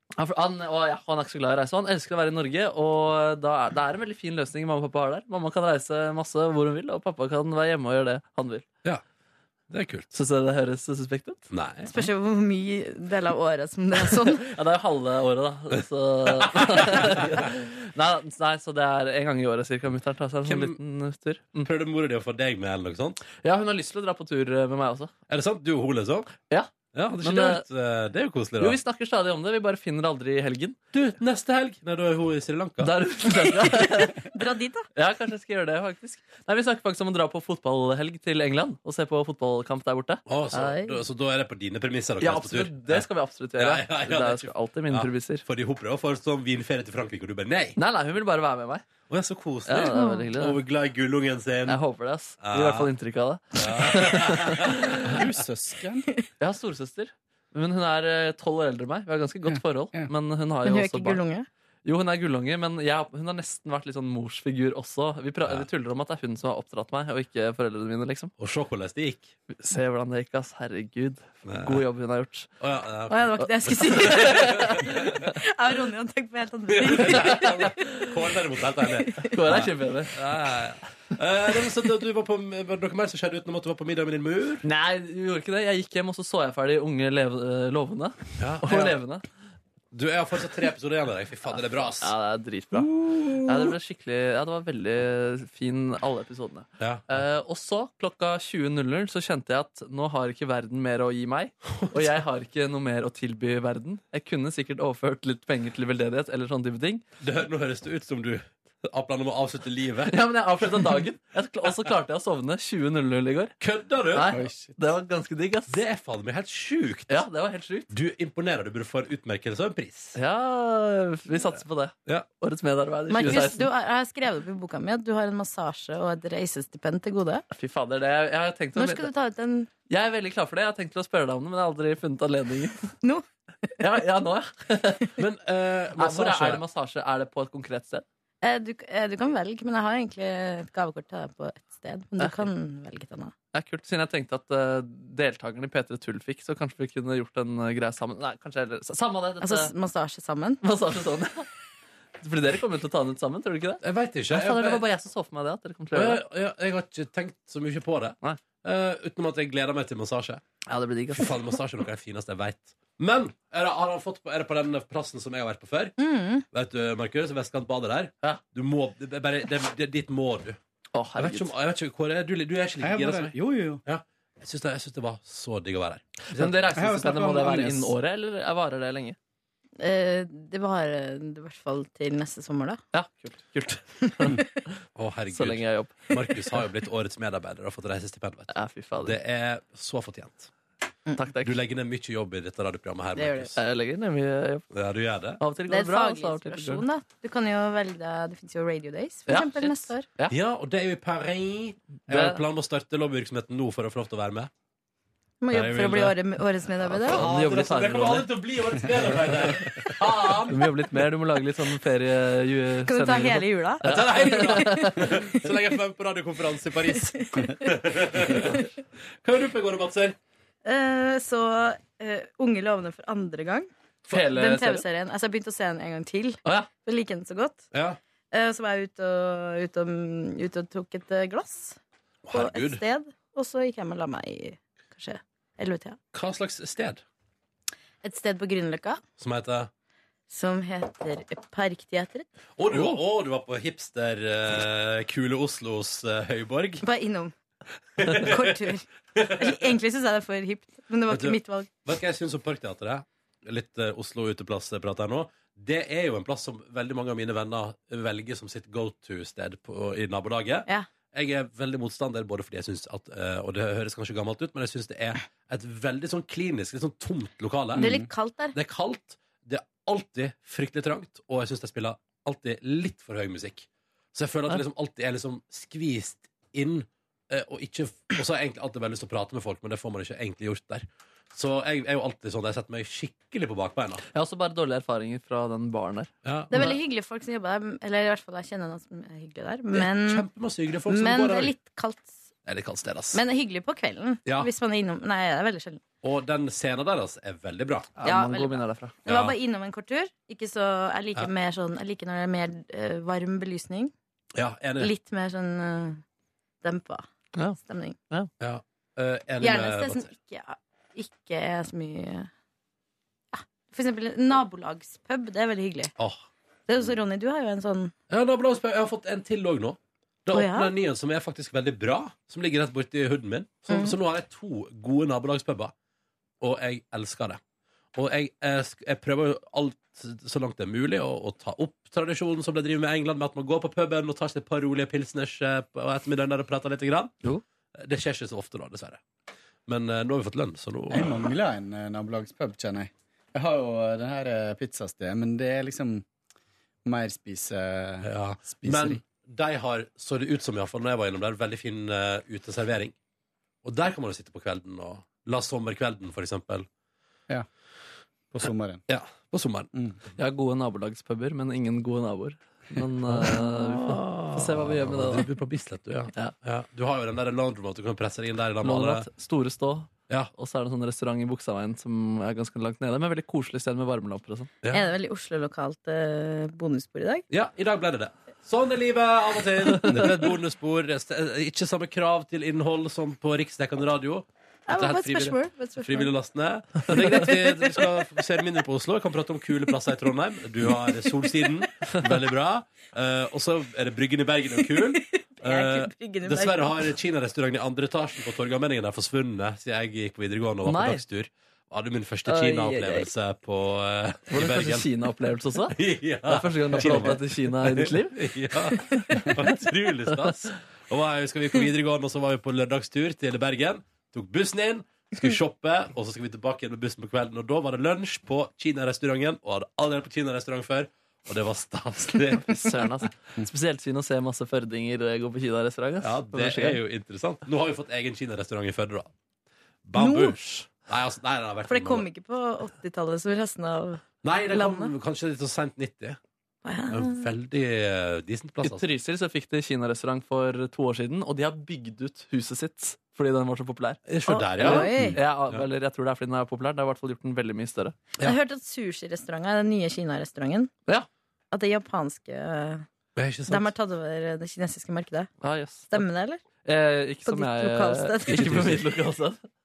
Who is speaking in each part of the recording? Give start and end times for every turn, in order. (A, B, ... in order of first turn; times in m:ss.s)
0:00.2-0:08.6 A
0:09.7-0:10.1 B
0:10.1-0:11.5 A
0:11.5-0:11.9 B
0:11.9-0:14.5 C
0:14.4-0:21.7 A
0:16.4-0:17.4 B
0:20.4-0:20.8 B
0:21.6-0:23.2 B
0:23.4-0:25.1 A
0:25.3-0:26.3 B
0:26.9-0:28.8 B
0:27.2-0:27.6 A
0:28.6-0:30.8 A
0:30.9-0:32.9 B
0:32.8-0:34.2 A
0:34.3-0:34.8 C
0:34.9-0:40.2 A
0:40.3-0:47.8 B
0:40.5-0:41.0 C
0:42.2-0:45.4 A
0:47.8-0:48.9 A
0:49.1-0:51.8 B
0:49.6-0:50.6 A
0:49.9-0:50.3 C
0:51.7-0:55.1 A
0:52.4-0:52.9 B
0:53.5-0:55.3 B
0:55.1-0:56.0 D
0:56.4-1:01.2 A
0:59.5-1:00.1 D
1:00.6-1:01.5 C
1:01.8-1:08.3 A
1:08.4-1:09.3 B
1:09.5-1:12.5 A
1:11.4-1:11.8 B
1:12.6-1:15.2 B
1:13.1-1:17.8 C
1:13.4-1:15.0 A
1:16.7-1:24.6 B
1:17.1-1:17.5 A
1:18.8-1:19.3 C
1:19.3-1:20.1 A
1:24.6-1:29.2 A
1:28.4-1:29.0 B
1:29.9-1:32.1 B
1:32.0-1:47.0 A
1:36.8-1:37.2 B
1:41.8-1:42.1 B
1:47.2-1:50.1 B
1:50.0-1:53.5 A
1:53.6-1:54.4 B
1:54.1-1:55.8 A
1:54.3-1:54.8 D
1:55.7-1:57.2 B
1:57.1-1:57.9 A
1:57.9-2:00.2 B
2:00.2-2:03.7 A
2:03.1-2:07.4 C
2:03.2-2:03.6 B
2:07.5-2:09.1 A
2:08.7-2:09.7 C
2:09.9-2:12.9 A
2:13.8-2:15.1 A
2:15.2-2:16.6 B
2:16.0-2:18.0 A
2:18.4-2:23.3 C
2:22.2-2:22.4 A
2:23.5-2:29.7 A
2:29.4-2:30.6 C
2:30.6-2:31.5 A
2:32.2-2:36.2 A
2:33.8-2:34.8 B
2:35.9-2:40.4 B
2:40.7-2:41.4 A
2:41.1-2:46.0 B
2:46.0-2:46.4 C
2:46.5-2:50.6 B
2:50.9-2:51.5 A
2:51.2-2:56.8 B
2:52.8-2:53.8 D
2:56.3-2:59.2 A
2:56.7-2:57.9 D
2:59.8-3:02.8 C
3:02.9-3:04.6 A
3:05.0-3:10.5 B
3:05.3-3:06.6 A
3:08.5-3:09.2 A
3:11.2-3:11.6 A
3:11.4-3:13.5 B
3:13.1-3:13.5 C
3:13.6-3:14.7 A
3:14.7-3:15.4 B
3:15.4-3:16.8 A
3:15.7-3:20.1 C
3:19.3-3:20.4 A
3:20.3-3:24.5 B
3:22.1-3:22.4 A
3:25.4-3:27.2 C
3:25.5-3:26.2 B
3:26.7-3:30.7 B
3:27.1-3:28.3 A
3:30.5-3:35.1 A
3:32.8-3:34.9 C
3:33.8-3:38.6 B
3:36.9-3:37.7 C
3:39.2-3:40.2 B
3:40.6-3:47.6 C
3:44.1-3:44.8 A
3:46.4-3:46.7 A
3:47.7-3:48.0 B
3:48.3-3:51.8 C
3:52.2-3:52.8 B
3:52.3-3:56.0 C
3:56.1-3:57.0 B
3:58.0-3:59.0 C
3:59.2-3:59.7 B
4:00.3-4:02.3 C
4:02.6-4:06.8 B
4:06.8-4:07.3 C
4:08.0-4:08.6 B
4:08.1-4:11.8 C
4:09.1-4:09.6 B
4:11.1-4:44.0 B
4:27.8-4:28.0 D
4:27.8-4:28.6 C
4:44.1-4:46.7 A
4:46.2-4:46.7 B
4:46.5-4:50.3 C
4:49.7-4:51.5 B
4:50.9-4:52.2 C
4:52.4-4:53.2 B
4:53.1-4:55.8 C
4:54.2-4:54.5 B
4:56.0-4:58.0 B
4:58.0-4:59.0 A
4:58.0-5:03.9 C
4:59.0-4:59.3 B
5:04.3-5:04.9 B
5:04.8-5:06.0 C
5:06.6-5:07.1 C
5:07.6-5:08.0 C
5:08.4-5:10.1 B
5:09.4-5:12.3 C
5:13.3-5:15.9 C
5:16.0-5:16.2 B
5:16.7-5:17.9 C
5:18.1-5:25.7 B
5:20.3-5:20.7 C
5:23.7-5:24.0 C
5:26.4-5:27.4 B
5:27.9-5:37.2 B
5:37.8-5:39.0 B
5:39.7-5:41.3 B
5:40.9-5:46.0 D
5:46.8-5:49.0 D
5:48.0-5:52.9 B
5:53.6-5:56.7 B
5:58.3-5:58.8 D
5:58.9-5:59.7 B
6:00.2-6:05.2 A
6:03.1-6:09.1 B
6:08.6-6:14.5 A
6:14.7-6:17.2 C
6:17.3-6:44.9 B
6:24.7-6:26.1 C
6:27.2-6:27.8 C
6:34.7-6:36.9 C
6:40.6-6:41.0 A
6:42.3-6:43.0 A
6:44.3-6:48.3 A
6:45.7-7:02.6 B
6:48.9-6:49.2 A
7:02.4-7:06.8 A
7:06.0-7:09.1 B
7:09.8-7:12.0 B
7:10.0-7:10.4 C
7:11.6-7:14.9 C
7:14.2-7:16.2 B
7:16.6-7:17.3 C
7:16.9-7:18.9 B
7:18.6-7:24.0 A
7:24.1-7:24.9 B
7:24.2-7:25.1 C
7:24.6-7:28.0 A
7:24.9-7:25.2 D
7:28.2-7:30.7 C
7:31.5-7:32.8 C
7:33.2-7:33.7 B
7:33.5-7:35.3 C
7:35.4-7:36.0 A
7:35.9-7:36.4 C
7:36.6-7:39.4 A
7:37.2-7:38.4 C
7:38.3-7:38.9 B